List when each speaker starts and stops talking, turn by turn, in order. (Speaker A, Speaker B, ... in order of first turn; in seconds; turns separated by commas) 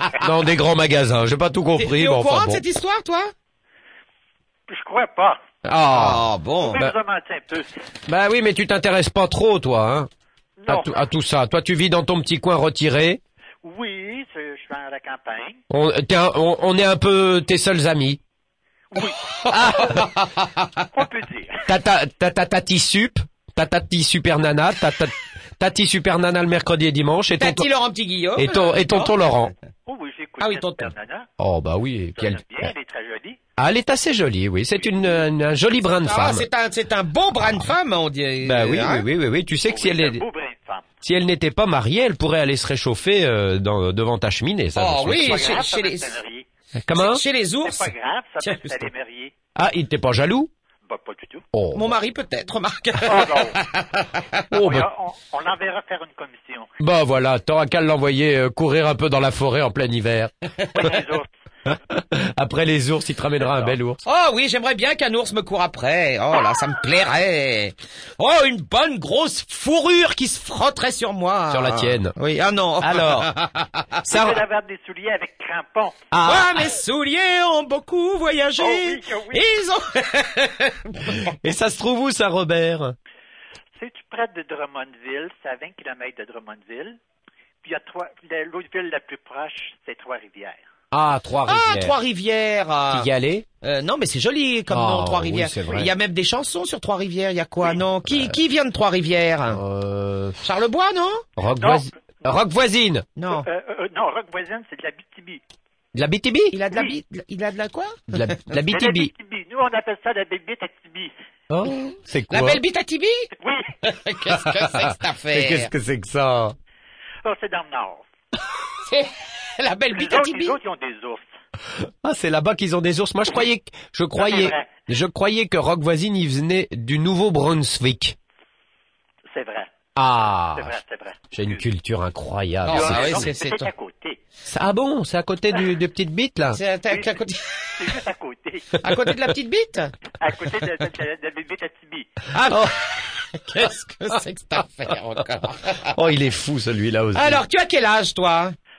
Speaker A: 0.1-2.6, Speaker B: 1.8-3.3, Speaker C: 4.7-5.4, Speaker A: 5.6-6.2, Speaker B: 5.9-6.8, Speaker C: 6.6-7.7, Speaker A: 8.1-10.1, Speaker C: 10.6-11.0, Speaker A: 10.7-13.2, Speaker C: 13.6-15.6, Speaker A: 15.7-18.2, Speaker C: 18.9-20.0, Speaker B: 19.3-20.9, Speaker A: 19.5-20.0, Speaker C: 20.9-21.6, Speaker A: 21.6-27.7, Speaker B: 27.4-29.1, Speaker A: 28.4-29.5, Speaker C: 29.9-31.3, Speaker B: 30.4-30.9, Speaker A: 31.4-32.7, Speaker C: 32.1-33.4, Speaker A: 33.6-36.5, Speaker B: 36.0-39.1, Speaker A: 38.4-40.2, Speaker C: 39.7-40.9, Speaker A: 41.0-45.5, Speaker B: 44.8-46.1, Speaker C: 45.1-46.5, Speaker A: 46.8-47.2, Speaker B: 46.9-48.9, Speaker C: 47.6-49.3, Speaker A: 49.5-50.5, Speaker C: 50.8-51.4, Speaker A: 51.5-51.9, Speaker B: 51.7-54.4, Speaker C: 53.0-53.6, Speaker A: 54.5-54.9, Speaker C: 54.5-56.7, Speaker A: 56.8-60.9, Speaker C: 60.7-61.3, Speaker A: 61.9-64.0, Speaker B: 64.0-74.1, Speaker A: 71.5-72.1, Speaker A: 72.8-73.3, Speaker C: 74.1-76.0, Speaker A: 74.1-74.4, Speaker A: 76.1-76.6, Speaker B: 76.2-81.3, Speaker C: 78.6-79.4, Speaker A: 81.2-83.0, Speaker C: 83.8-87.0, Speaker C: 87.6-90.6, Speaker A: 90.9-91.9, Speaker B: 91.5-93.1, Speaker A: 92.9-93.5, Speaker B: 93.6-99.6, Speaker A: 94.7-95.9, Speaker A: 98.1-98.3, Speaker A: 99.5-100.4, Speaker B: 100.4-101.2, Speaker A: 101.4-103.1, Speaker C: 101.6-101.9, Speaker B: 103.2-103.5, Speaker C: 103.3-105.4, Speaker A: 105.9-106.5, Speaker B: 106.5-108.5, Speaker A: 108.1-109.1, Speaker C: 108.7-111.1, Speaker A: 111.5-112.6, Speaker B: 112.3-113.3, Speaker C: 113.4-113.7, Speaker B: 113.8-115.7, Speaker A: 114.3-116.5, Speaker C: 117.2-118.0, Speaker B: 118.8-120.6, Speaker C: 119.9-121.3, Speaker A: 121.8-128.2, Speaker C: 124.2-124.8, Speaker C: 129.3-129.7, Speaker A: 129.9-130.8, Speaker C: 130.5-131.6, Speaker A: 131.3-133.3, Speaker B: 132.6-133.7, Speaker C: 132.7-134.2, Speaker A: 134.4-136.6, Speaker B: 136.5-137.9, Speaker C: 136.9-137.2, Speaker C: 137.7-138.8, Speaker B: 138.8-139.9, Speaker C: 140.2-142.2, Speaker B: 142.3-146.0, Speaker A: 142.4-142.7, Speaker A: 145.8-147.4, Speaker B: 147.1-148.6